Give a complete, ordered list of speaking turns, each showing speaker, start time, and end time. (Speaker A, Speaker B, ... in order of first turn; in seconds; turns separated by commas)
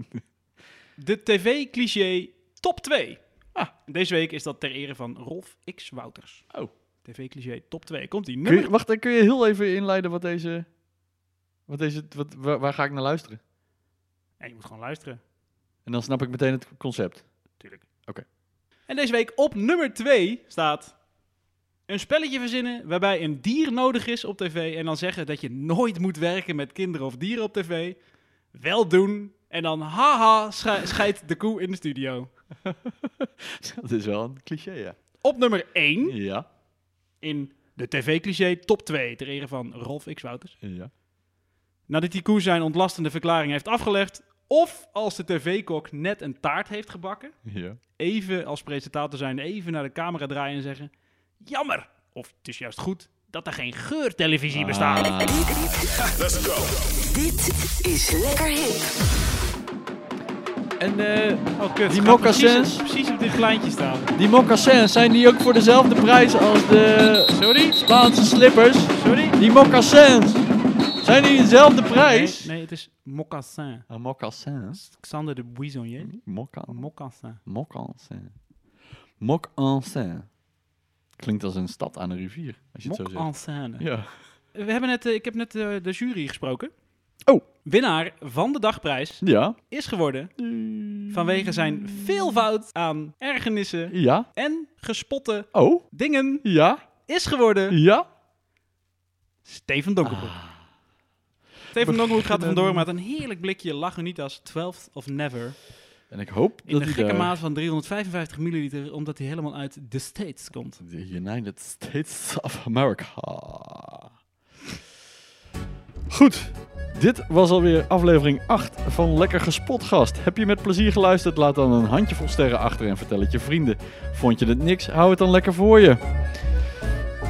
Speaker A: 1.0-6.5, Speaker A: 7.0-8.7, Speaker B: 8.4-10.7, Speaker B: 11.7-13.4, Speaker A: 14.4-15.2, Speaker B: 15.8-18.2, Speaker A: 17.6-17.9, Speaker A: 18.9-21.0, Speaker A: 21.9-28.0, Speaker A: 28.5-32.3, Speaker B: 32.6-35.0, Speaker A: 35.2-36.2, Speaker B: 36.0-36.5, Speaker A: 37.2-40.6, Speaker B: 40.6-40.9, Speaker A: 41.9-47.4, Speaker B: 47.5-47.8, Speaker A: 48.0-55.4, Speaker B: 54.5-56.7, Speaker B: 60.8-62.9, Speaker A: 61.6-64.2, Speaker B: 64.2-70.5, Speaker A: 67.3-67.8, Speaker A: 68.9-69.4, Speaker B: 71.0-72.5, Speaker A: 72.0-73.9, Speaker B: 73.9-74.8, Speaker A: 74.7-77.4, Speaker B: 76.0-76.9, Speaker B: 77.4-78.3, Speaker B: 79.2-80.3, Speaker B: 81.2-84.1, Speaker A: 82.8-83.9, Speaker A: 84.5-86.7, Speaker A: 87.6-90.3, Speaker B: 89.2-89.6, Speaker B: 90.4-92.5, Speaker A: 91.1-96.5, Speaker B: 93.9-94.3, Speaker B: 95.5-95.9, Speaker B: 96.4-96.8, Speaker A: 97.0-97.8, Speaker B: 97.7-98.1, Speaker A: 99.5-100.4, Speaker B: 100.0-100.7, Speaker B: 101.7-102.9, Speaker A: 101.7-105.6, Speaker B: 106.1-107.4, Speaker A: 106.7-110.8, Speaker B: 110.8-114.1, Speaker B: 116.1-126.0